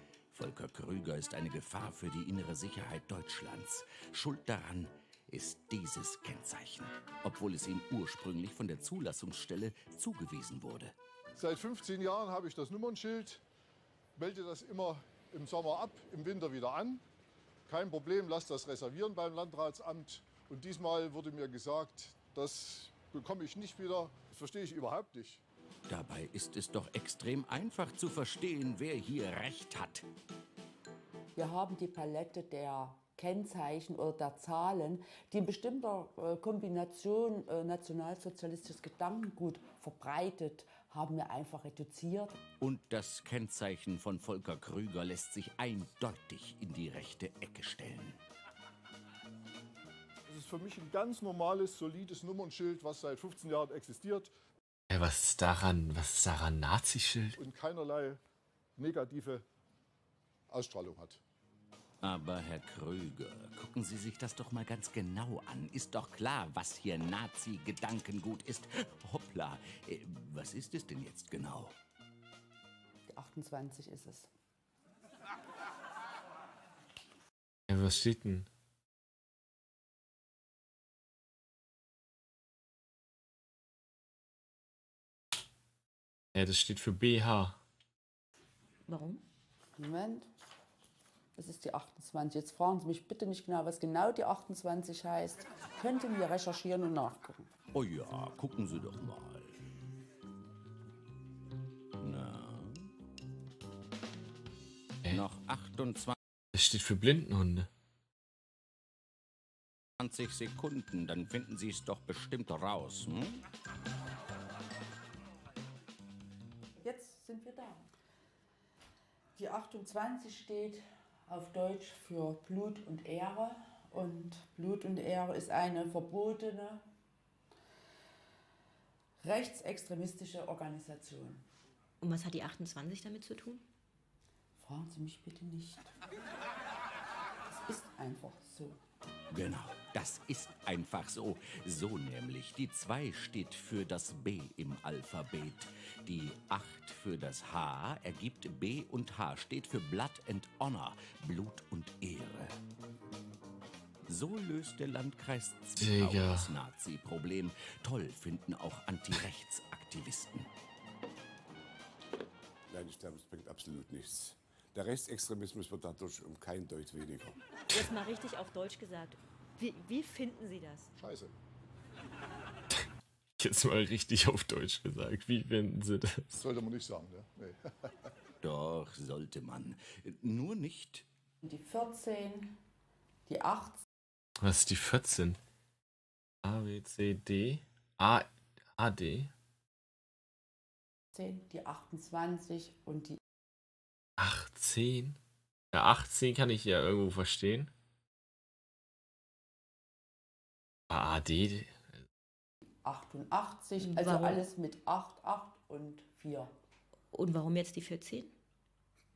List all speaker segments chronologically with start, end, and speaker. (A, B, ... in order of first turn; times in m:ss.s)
0:00.3-0:10.9 A
0:11.4-0:13.4 B
0:14.2-0:17.0 B
0:17.7-0:25.4 B
0:25.9-0:30.1 A
0:31.4-0:42.4 C
0:42.6-0:48.2 A
0:50.3-0:54.3 B
0:54.9-0:57.4 D
0:57.4-0:58.2 B
0:58.8-0:59.4 B
1:00.5-1:01.2 B
1:02.0-1:11.8 A
1:13.1-1:14.3 C
1:17.7-1:18.5 D
1:26.3-1:27.6 D
1:28.9-1:29.2 E
1:29.8-1:30.3 C
1:31.4-1:37.5 C
1:37.7-1:39.6 A
1:42.0-1:42.9 A
1:45.1-1:46.2 A
1:46.6-1:47.7 D
1:50.0-1:53.4 A
1:56.8-1:57.8 C
1:59.4-2:06.8 C
2:09.2-2:11.4 C
2:12.0-2:13.6 E
2:14.6-2:15.9 C
2:17.5-2:18.8 C
2:19.3-2:32.6 A
2:34.1-2:40.5 A
2:35.8-2:36.5 D
2:42.7-2:47.4 F
2:47.7-2:50.9 E
2:51.0-2:51.3 B
2:53.4-2:56.3 D
2:56.4-2:57.6 B
2:58.4-3:01.1 A
3:01.4-3:02.6 C
3:03.3-3:03.8 C
3:04.4-3:05.4 D
3:06.4-3:09.3 D
3:11.1-3:13.2 C
3:14.2-3:15.2 D
3:15.7-3:17.7 D
3:20.9-3:21.7 D
3:22.8-3:26.5 C
3:23.8-3:24.4 E
3:27.1-3:28.3 E